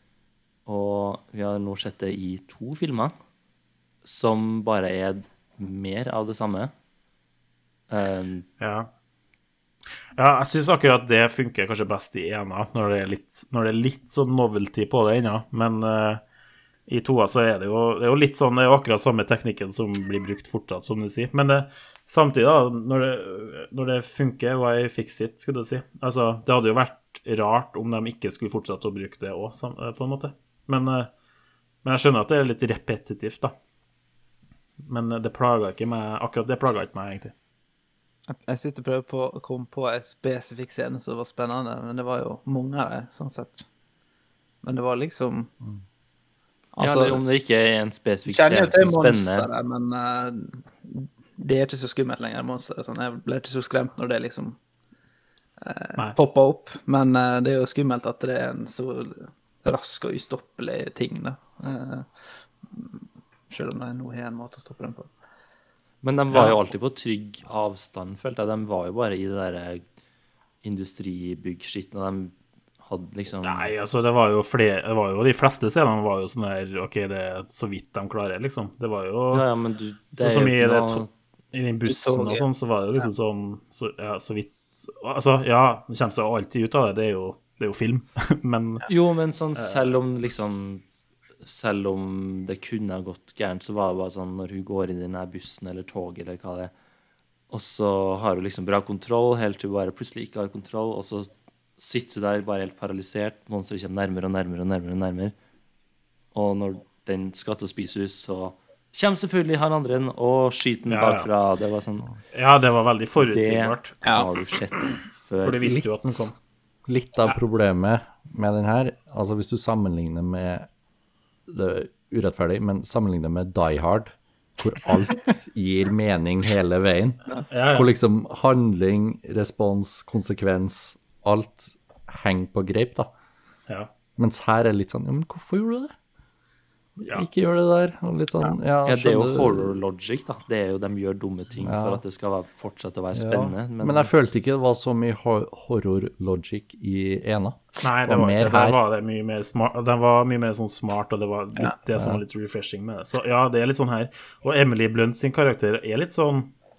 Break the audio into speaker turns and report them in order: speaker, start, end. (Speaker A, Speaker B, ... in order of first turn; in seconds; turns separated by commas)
Speaker A: 0.7-3.1, Speaker A: 4.0-6.7, Speaker A: 7.9-8.5, Speaker B: 8.6-8.9, Speaker B: 10.2-16.2, Speaker B: 16.9-31.1, Speaker B: 31.8-33.5, Speaker B: 34.9-37.3, Speaker C: 38.3-43.7, Speaker C: 44.6-45.5, Speaker C: 46.8-47.2, Speaker A: 46.8-49.5, Speaker C: 48.3-54.6, Speaker C: 55.6-65.1, Speaker A: 66.0-69.8, Speaker A: 70.6-73.7, Speaker B: 73.4-79.5, Speaker A: 79.3-81.1, Speaker B: 80.2-88.9, Speaker C: 81.9-82.5, Speaker A: 88.9-90.8, Speaker B: 89.6-89.9, Speaker A: 91.4-96.7, Speaker A: 97.5-105.3, Speaker A: 106.3-112.1, Speaker B: 110.9-111.3, Speaker B: 112.3-114.0, Speaker A: 113.2-116.0, Speaker B: 115.4-116.3, Speaker D: 116.9-120.7, Speaker D: 121.5-133.1, Speaker B: 127.5-127.9, Speaker B: 133.7-133.9, Speaker D: 134.2-135.9, Speaker D: 137.0-139.8, Speaker A: 138.8-144.1, Speaker D: 141.6-142.0, Speaker D: 143.1-148.8, Speaker B: 147.8-156.5, Speaker D: 151.9-152.2